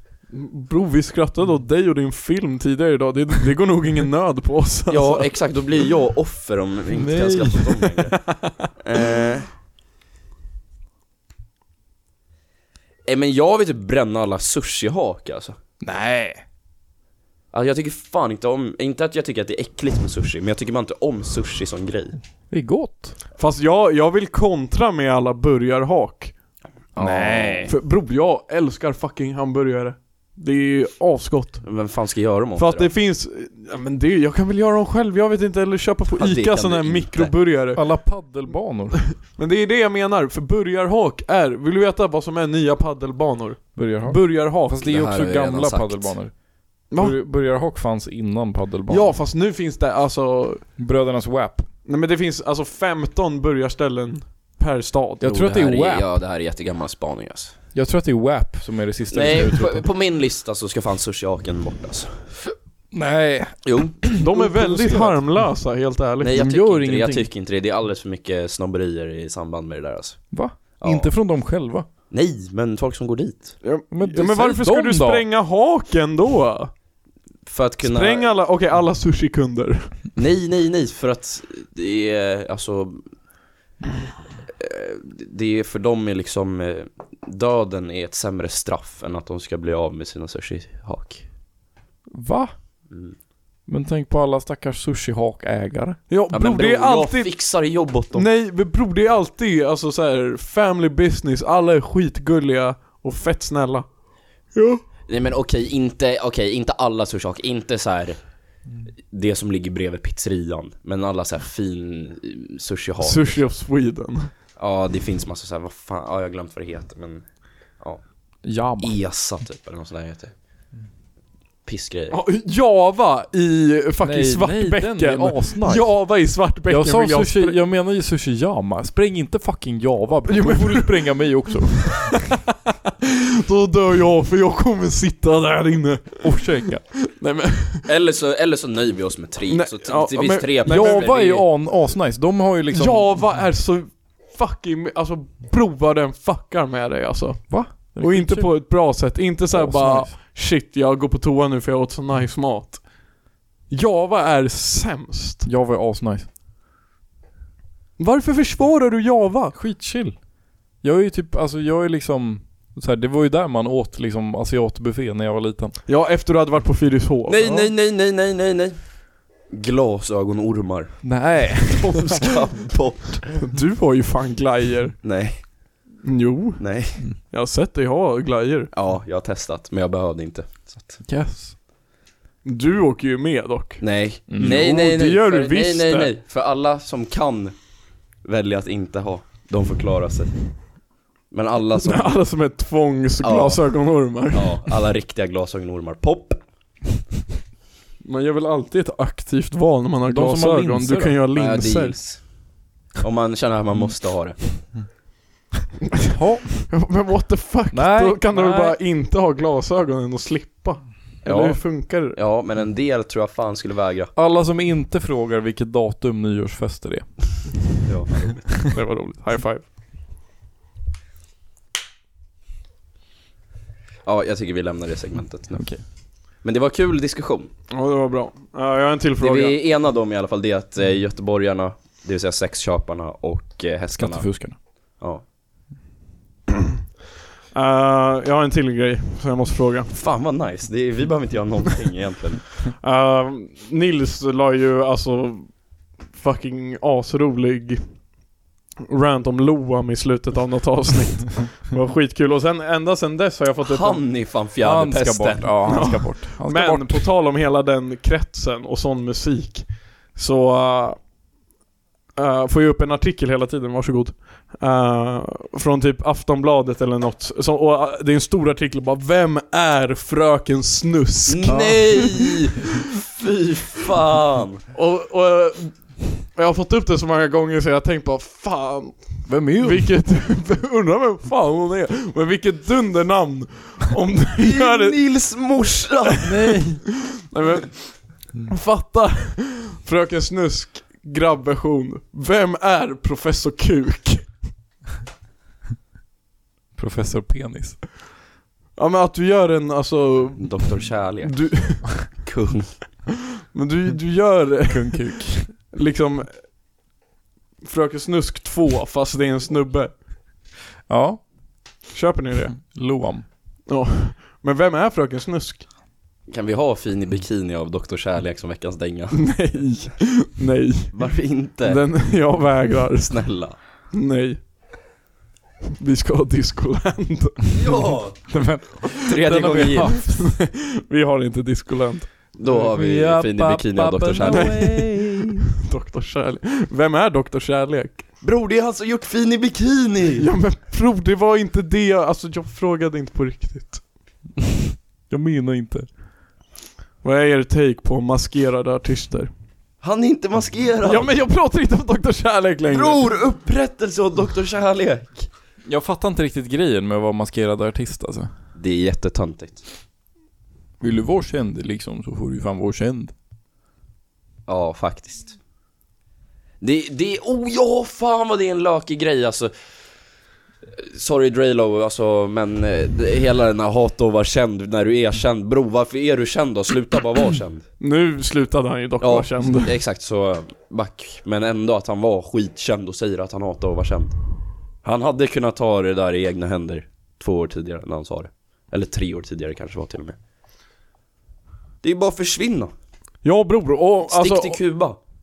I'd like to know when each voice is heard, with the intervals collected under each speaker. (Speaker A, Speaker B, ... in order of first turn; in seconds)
Speaker A: 0.3-5.3, 23.4-26.3, 27.7-31.7, 32.5-37.9, 39.2-44.8, 46.9-47.2, 48.9-50.6, 51.8-55.3, 64.2-66.3, 73.6-76.7, 77.8-80.0, 96.1-97.3, 98.1-103.9, 104.5-104.8, 113.0-114.3, 122.1-127.6, 130.3-131.0, 133.4-136.5, 137.1-137.8, 139.5-141.1, 142.7-152.8, 153.7-155.4, 158.0-159.6, 165.9-167.6, 173.4-174.9, 176.0-178.7, 182.4-186.1, 191.8-194.6, 198.0-201.9, 206.7-212.2, 218.7-219.7, 227.7-229.6, 237.5-239.9, 242.8-248.0, 248.8-254.0, 255.7-261.0, 262.1-272.0, 274.7-285.0, 287.3-294.4, 298.8-300.7, 301.2-302.0, 303.5-306.4, 307.6-309.9, 311.9-312.6, 313.7-315.7, 319.1-320.9, 321.6-324.4, 325.8-327.9, 329.9-332.1, 334.3-334.8, 335.6-338.0, 340.2-343.8, 347.0-349.3, 350.8-353.0, 377.8-379.7, 393.2-394.6
Speaker B: 4.9-8.2, 8.8-9.5, 13.1-15.6, 17.5-22.2, 26.9-27.7, 31.6-32.9, 36.2-37.3, 44.8-46.2, 55.2-57.5, 59.1-62.3, 63.6-64.1, 66.2-71.1, 72.1-73.6, 77.5-78.3, 80.2-83.0, 84.6-91.2, 92.9-93.2, 96.3-98.3, 105.1-108.2, 109.1-113.5, 114.6-117.2, 118.7-120.3, 121.6-122.2, 137.8-141.5, 167.3-168.9, 169.5-173.3, 175.0-175.5, 176.6-177.0, 178.7-181.0, 183.8-187.5, 188.2-190.4, 191.3-192.2, 193.2-196.4, 201.3-202.4, 203.0-204.6, 211.2-214.1, 217.8-218.7, 224.0-225.8, 226.4-227.5, 229.2-234.3, 239.9-242.5, 253.6-256.0, 271.3-272.6, 273.2-274.6, 284.4-286.3, 300.4-302.8, 316.3-319.3, 320.9-321.9, 323.0-323.6, 327.5-328.2, 329.0-330.0, 332.3-335.0, 338.2-340.3, 349.8-351.2, 352.7-355.3, 358.5-359.6, 364.5-365.4, 366.6-369.5, 370.8-377.6, 379.0-384.2, 384.8-390.2, 391.8-392.7, 394.1-395.0
Speaker C: 6.9-7.9, 15.8-16.4, 22.5-23.1, 26.9-27.7, 37.7-39.0, 43.7-49.1, 50.8-51.7, 55.2-56.1, 57.7-59.9, 62.9-65.2, 66.3-67.3, 70.3-71.9, 73.9-75.2, 92.1-92.5, 93.7-96.0, 118.4-119.0, 124.0-126.0, 126.7-132.3, 136.2-136.8, 140.6-143.2, 147.5-148.7, 149.5-150.1, 155.4-156.3, 159.5-160.2, 160.8-165.8, 171.0-172.0, 181.0-181.6, 184.3-184.6, 200.1-201.2, 206.1-206.7, 207.7-208.8, 214.1-217.5, 225.5-225.8, 234.0-234.6, 254.6-257.1, 271.4-272.1, 279.2-279.9, 286.2-286.9, 296.7-297.8, 304.6-305.5, 310.9-311.2, 312.7-313.2, 328.3-330.4, 332.5-335.4, 345.1-345.9, 355.6-358.3, 360.8-363.1